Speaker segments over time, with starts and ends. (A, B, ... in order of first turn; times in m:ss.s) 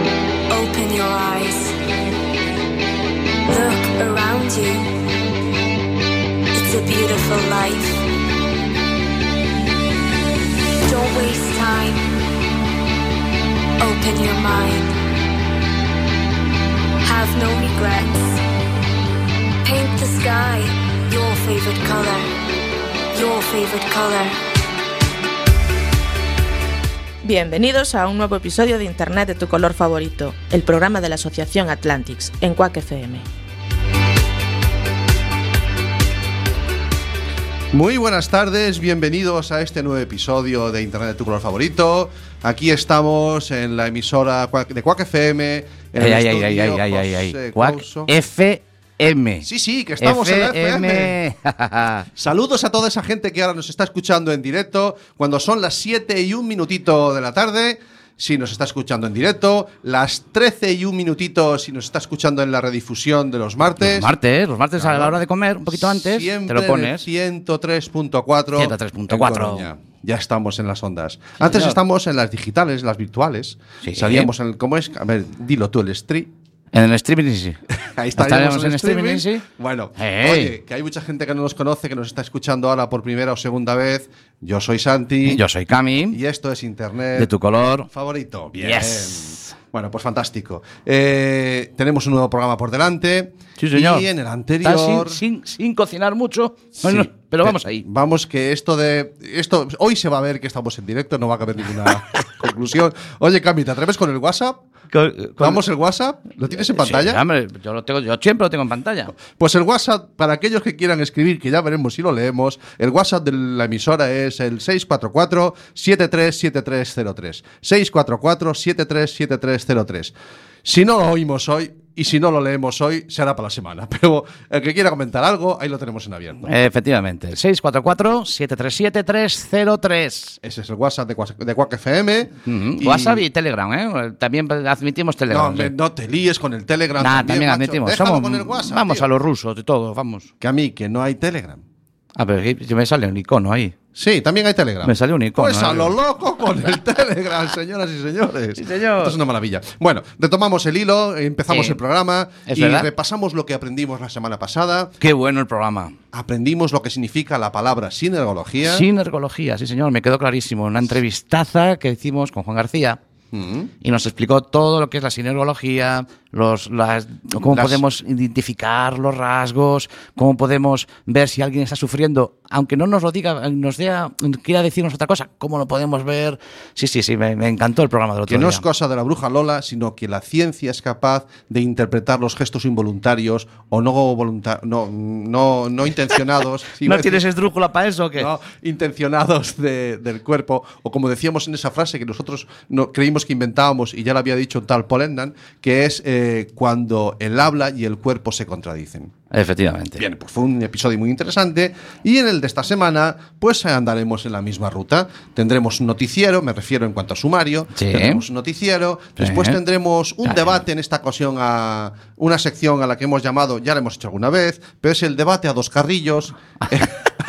0:00.5-0:01.8 A
0:03.4-0:04.9 A
0:06.5-0:08.0 A
0:10.8-0:12.0 A
0:13.8-0:14.9 A
0:17.0-0:18.4 A
0:19.6-0:22.3 A
0:23.1-0:24.4 A
0:27.2-0:33.2 B
0:37.7-0:48.1 C
0:46.0-0:49.5 D
0:49.4-0:51.2 C
0:50.0-0:52.1 D
0:52.2-1:04.2 C
1:03.8-1:07.1 D
1:04.8-1:16.3 C
1:08.6-1:09.7 D
1:11.4-1:11.8 D
1:13.8-1:14.3 D
1:16.7-1:17.6 D
1:17.7-1:25.4 C
1:18.2-1:19.4 D
1:20.0-1:20.5 D
1:25.2-1:26.2 D
1:26.1-1:35.2 C
1:27.2-1:27.9 D
1:28.6-1:29.5 D
1:33.6-1:34.1 D
1:34.6-1:37.8 D
1:36.8-1:44.6 C
1:44.9-1:45.6 D
1:45.4-1:47.2 C
1:46.5-1:49.1 D
1:49.2-2:06.5 C
2:06.5-2:10.4 D
2:10.4-2:13.2 C
2:12.4-2:15.7 D
2:15.3-2:19.1 C
2:17.0-2:20.3 D
2:20.4-2:21.6 C
2:22.2-2:23.8 D
2:23.9-2:34.9 C
2:24.8-2:25.9 D
2:28.6-2:29.2 D
2:31.5-2:31.8 D
2:32.5-2:32.9 D
2:35.0-2:36.0 D
2:36.1-2:38.9 C
2:38.6-2:43.0 D
2:43.3-2:43.7 C
2:43.8-2:58.6 D
2:47.4-2:47.8 C
2:58.3-3:07.2 C
3:06.8-3:08.3 D
3:08.2-3:19.1 C
3:19.3-3:20.0 D
3:20.0-3:36.9 C
3:27.8-3:28.2 D
3:29.2-3:29.6 D
3:30.2-3:30.6 D